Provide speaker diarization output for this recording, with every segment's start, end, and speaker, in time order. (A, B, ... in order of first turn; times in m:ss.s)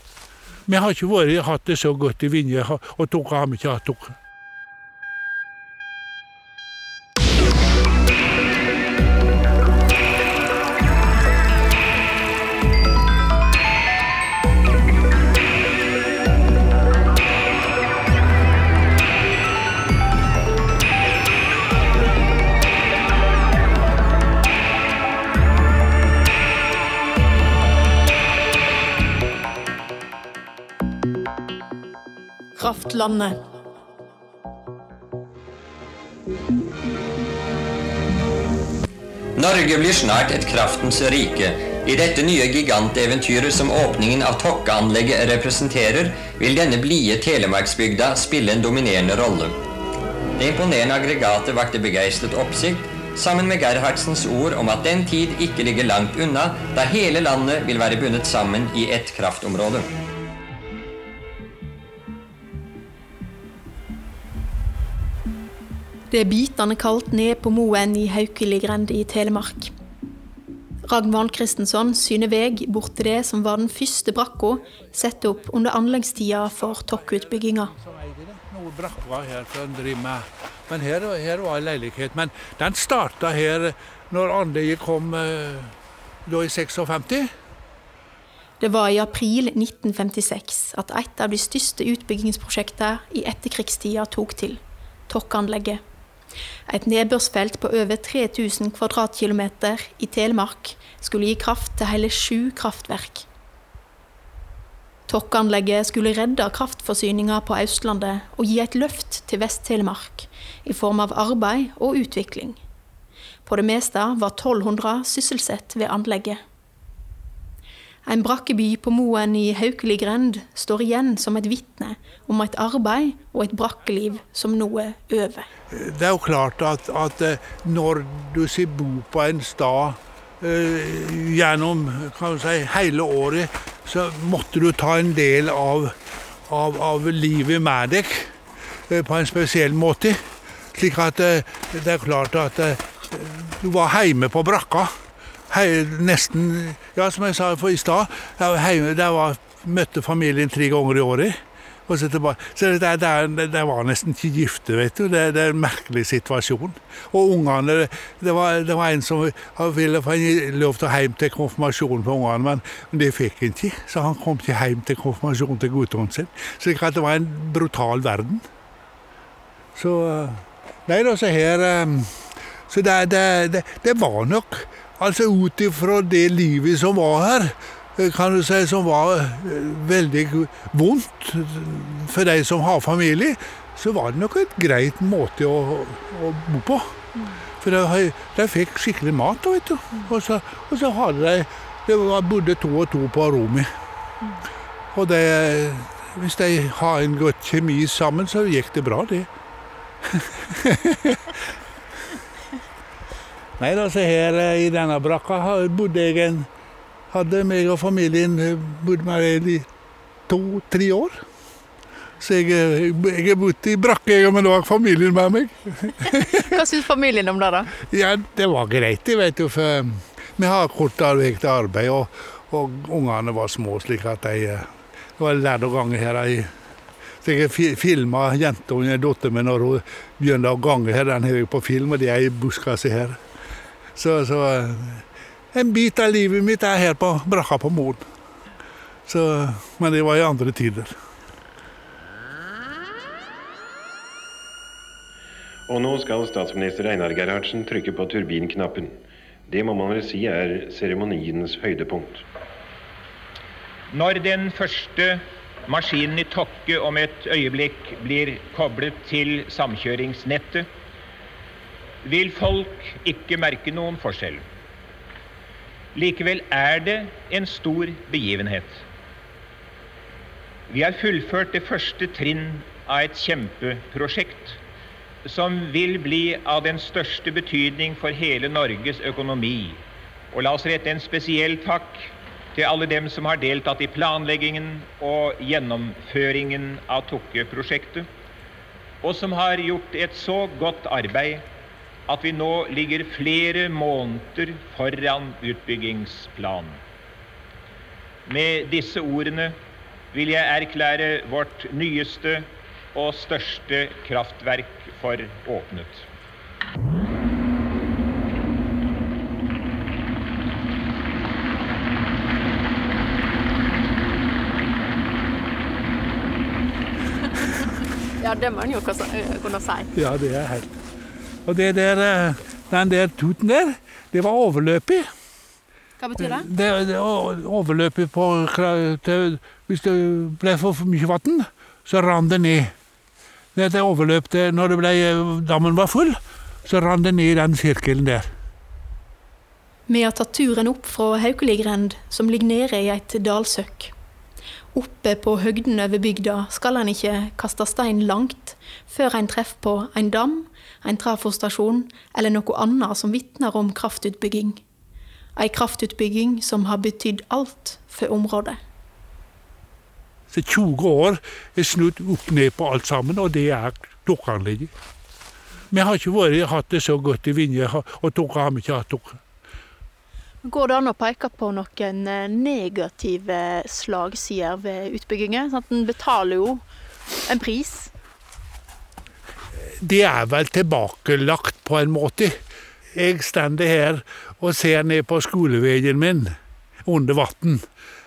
0:00.7-0:04.2 A
0:32.6-0:33.4 B
0:39.4-0:49.6 C
0:50.4-0:59.9 C
1:06.1-1:09.7 B
1:10.9-1:17.7 B
1:17.7-1:25.7 A
1:26.3-1:27.3 A
1:28.6-1:35.8 B
1:36.7-1:43.3 B
1:45.1-1:52.6 B
1:53.5-1:56.4 B
1:58.1-2:05.5 B
2:05.7-2:16.0 A
2:16.5-2:18.3 A
2:18.9-2:20.2 A
2:20.7-2:24.9 A
2:25.5-2:48.4 A
2:49.8-2:52.1 A
2:52.7-3:07.0 A
3:07.6-3:13.7 A
3:14.9-3:19.3 A
3:20.1-3:21.3 A
3:23.6-3:26.5 A
3:27.1-3:29.7 A
3:30.3-3:31.2 A
3:32.2-3:36.6 A
3:36.1-3:37.7 B
3:37.7-3:46.5 A
3:47.2-3:53.2 A
3:54.0-3:58.0 A
3:59.1-4:00.9 A
4:05.7-4:09.0 D
4:09.5-4:12.2 D
4:13.9-4:20.7 E
4:22.0-4:24.4 E
4:25.9-4:28.8 E
4:30.7-4:34.6 E
4:35.2-4:48.1 E
4:49.0-4:51.5 E
4:52.1-4:56.8 E
4:58.2-4:59.6 E
5:00.1-5:06.1 E
5:18.2-5:19.9 B
5:19.9-5:20.7 A
5:21.5-5:25.1 A
5:26.0-5:26.5 B
5:26.2-5:32.7 A
5:33.6-5:38.3 A
5:39.9-5:43.9 B
5:44.7-5:54.6 B
5:55.4-5:58.6 B
6:00.3-6:04.7 A
6:05.7-6:09.2 A
6:10.4-6:16.6 B
6:17.2-6:17.9 B
6:19.8-6:22.4 A
6:23.0-6:26.3 A
6:26.8-6:27.6 A